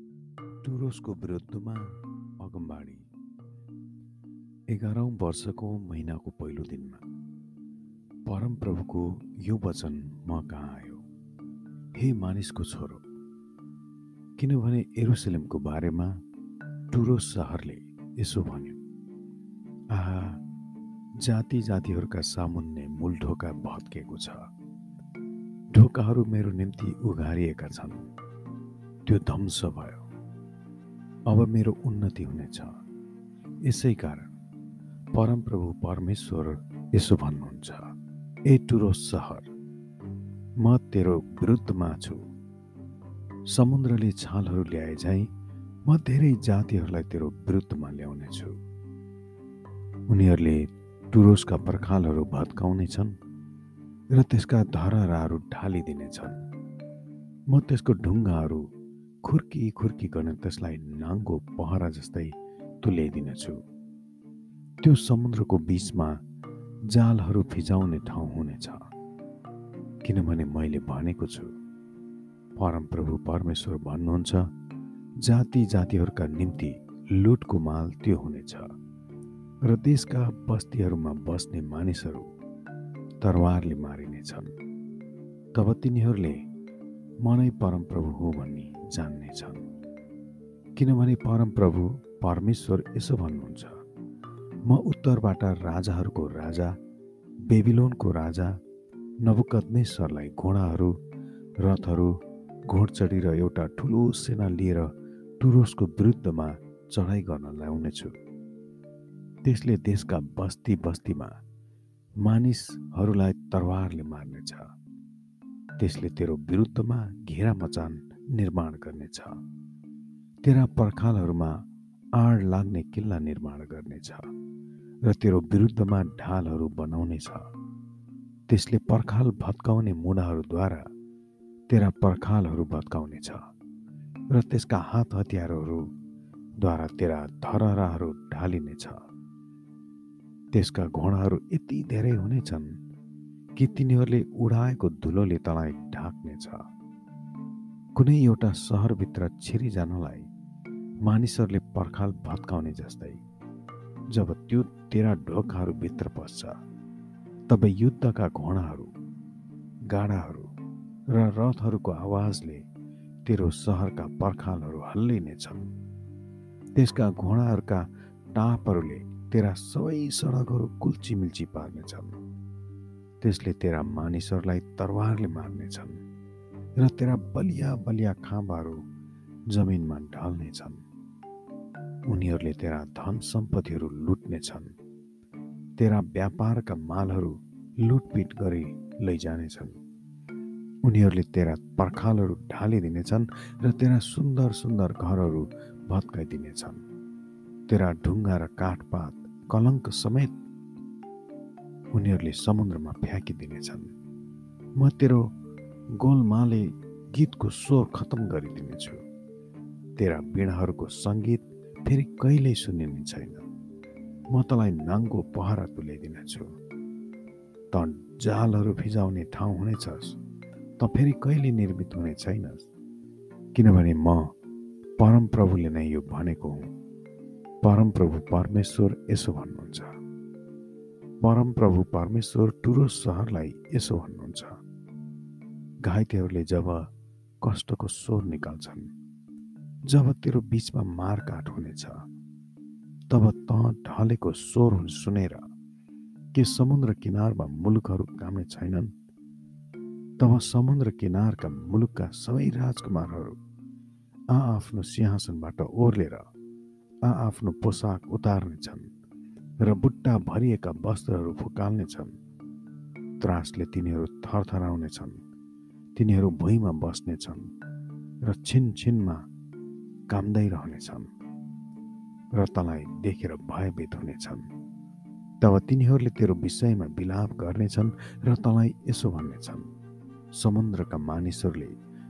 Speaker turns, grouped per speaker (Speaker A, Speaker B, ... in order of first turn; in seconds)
Speaker A: 0.6-3.1, 4.7-7.0, 8.3-11.0, 11.9-13.1, 14.4-16.2, 16.9-18.8, 19.9-20.4, 21.2-24.5, 25.7-28.1, 29.1-30.1, 31.3-32.8, 33.6-34.3, 35.1-37.9, 38.5-39.5, 40.6-42.2, 43.5-45.3, 45.9-48.6, 50.1-53.2, 54.1-56.4, 57.5-58.7, 59.2-63.6, 64.8-66.2, 66.9-68.9, 70.0-71.5, 72.6-74.5, 75.2-78.7, 79.7-82.3, 83.2-84.5, 85.5-86.4, 87.2-89.7, 90.8-93.8, 94.7-96.8, 97.5-98.6, 99.2-101.0, 101.6-108.2, 109.4-111.4, 112.2-114.7, 115.8-119.4, 120.4-121.7, 122.2-124.3, 125.0-127.5, 128.5-130.9, 131.7-133.5, 134.3-135.9, 136.6-139.1, 140.5-142.8, 143.6-146.7, 147.9-150.3, 151.0-153.2, 154.1-156.6, 157.5-158.9, 159.9-160.5, 161.1-162.7, 163.2-165.7, 166.8-172.2, 173.2-176.0, 176.8-178.8, 179.5-180.8, 182.1-184.8, 185.8-189.8, 190.8-196.8, 197.7-200.4, 201.9-203.9, 204.8-205.3, 206.0-209.0, 210.0-213.4, 214.3-216.5, 217.7-220.2, 220.8-222.7, 223.6-224.3, 225.0-226.7, 227.6-229.9, 231.2-234.6, 235.8-236.9, 237.4-238.9, 239.9-242.0, 243.1-245.5, 246.3-248.9, 250.2-253.4, 254.3-256.3, 257.0-258.9, 259.6-262.2, 263.2-265.2, 265.9-267.5, 268.2-269.3, 270.1-271.1, 272.3-274.5, 275.4-279.7, 280.3-281.8